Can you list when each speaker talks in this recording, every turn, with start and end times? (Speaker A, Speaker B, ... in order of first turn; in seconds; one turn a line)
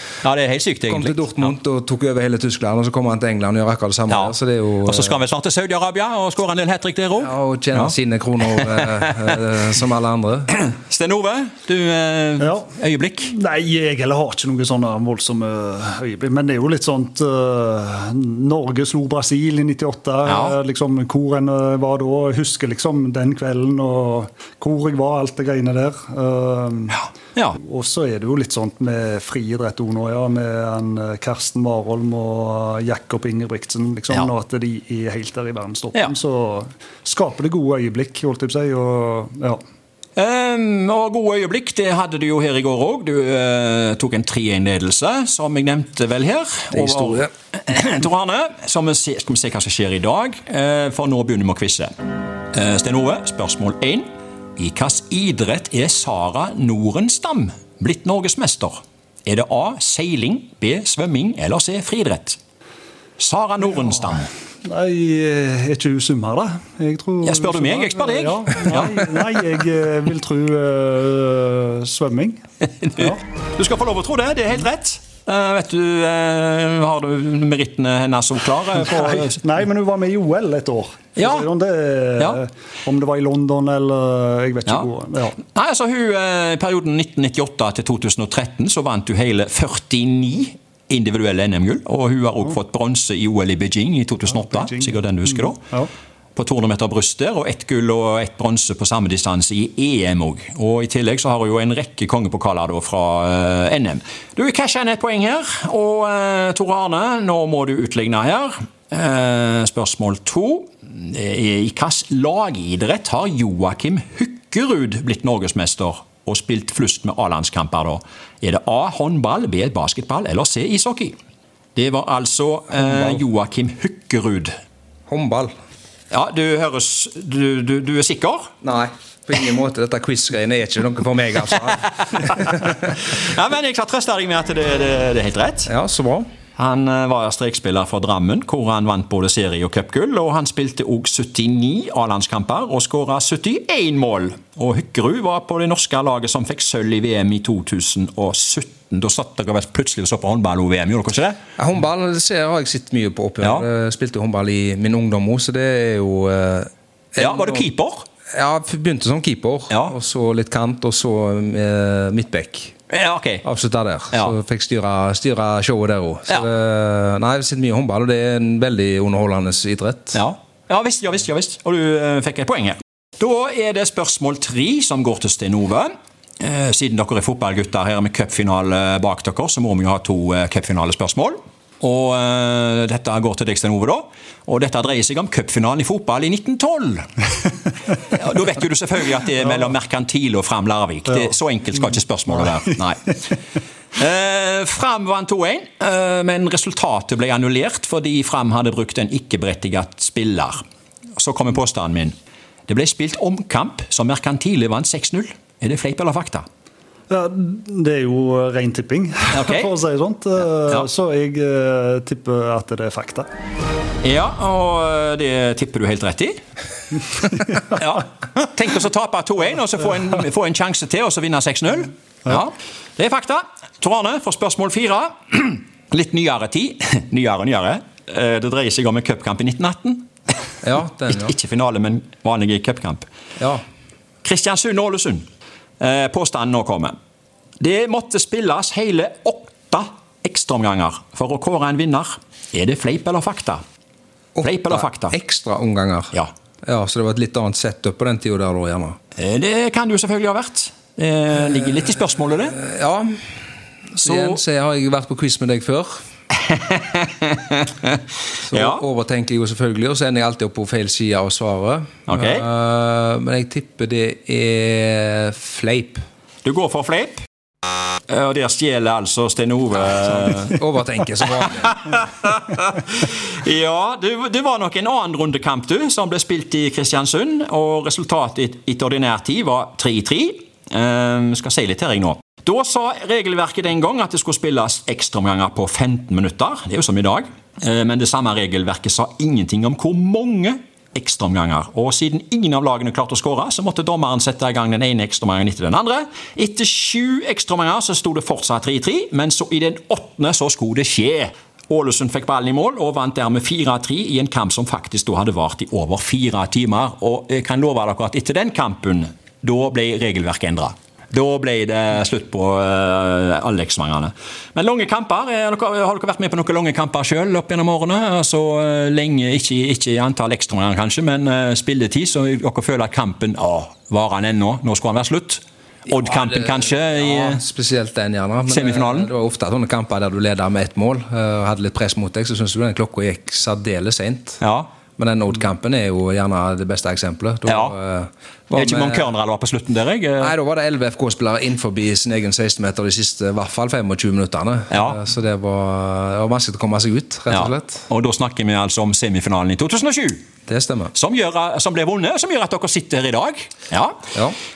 Speaker A: 0.2-1.5
Speaker B: 0.9-5.2
Speaker A: 4.1-7.9
Speaker B: 7.2-10.5
Speaker A: 8.4-9.4
Speaker A: 10.5-13.3
Speaker C: 12.4-12.6
Speaker C: 13.2-27.0
Speaker A: 20.2-20.6
Speaker A: 26.9-27.6
Speaker C: 27.6-39.6
Speaker A: 40.1-51.9
Speaker B: 46.7-47.3
Speaker A: 52.5-54.0
Speaker A: 54.6-62.4
Speaker A: 63.2-64.3
Speaker C: 64.6-72.4
Speaker A: 67.2-69.1
Speaker A: 72.7-79.4
Speaker C: 78.9-85.4
Speaker A: 81.2-81.5
Speaker A: 85.5-95.7
Speaker C: 94.4-95.9
Speaker A: 96.3-121.1
Speaker A: 121.7-124.5
Speaker B: 122.7-123.2
Speaker B: 125.1-125.5
Speaker A: 126.1-128.5
Speaker B: 128.6-132.6
Speaker A: 132.1-135.7
Speaker B: 135.7-136.2
Speaker A: 136.6-151.4
Speaker B: 151.6-157.7
Speaker A: 153.4-153.7
Speaker A: 157.2-158.0
Speaker B: 158.3-162.7
Speaker A: 162.9-163.4
Speaker B: 163.4-170.2
Speaker A: 170.1-187.1
Speaker A: 187.9-193.2
Speaker A: 194.0-200.6
Speaker A: 201.2-202.1
Speaker A: 202.7-206.4
Speaker C: 207.1-213.3
Speaker A: 209.3-209.7
Speaker A: 214.0-216.4
Speaker A: 217.6-230.1
Speaker B: 230.6-231.3
Speaker A: 231.1-233.0
Speaker A: 234.2-235.2
Speaker A: 235.8-236.9
Speaker A: 237.6-243.6
Speaker B: 244.3-246.1
Speaker A: 244.4-245.2
Speaker B: 246.7-249.0
Speaker A: 249.2-252.6
Speaker B: 252.5-253.2
Speaker B: 253.9-255.9
Speaker A: 254.0-254.4
Speaker A: 256.4-258.0
Speaker B: 258.5-266.0
Speaker A: 258.5-258.8
Speaker A: 262.1-262.4
Speaker A: 266.4-267.2
Speaker A: 268.1-270.6
Speaker B: 270.3-271.8
Speaker A: 271.3-327.4
Speaker B: 325.9-334.4
Speaker A: 328.5-329.1
Speaker A: 334.4-334.7
Speaker B: 335.0-339.1
Speaker A: 337.4-337.7
Speaker A: 338.5-340.4
Speaker B: 340.2-347.9
Speaker A: 344.7-345.0
Speaker A: 347.3-350.2
Speaker B: 350.5-350.9
Speaker A: 350.9-354.1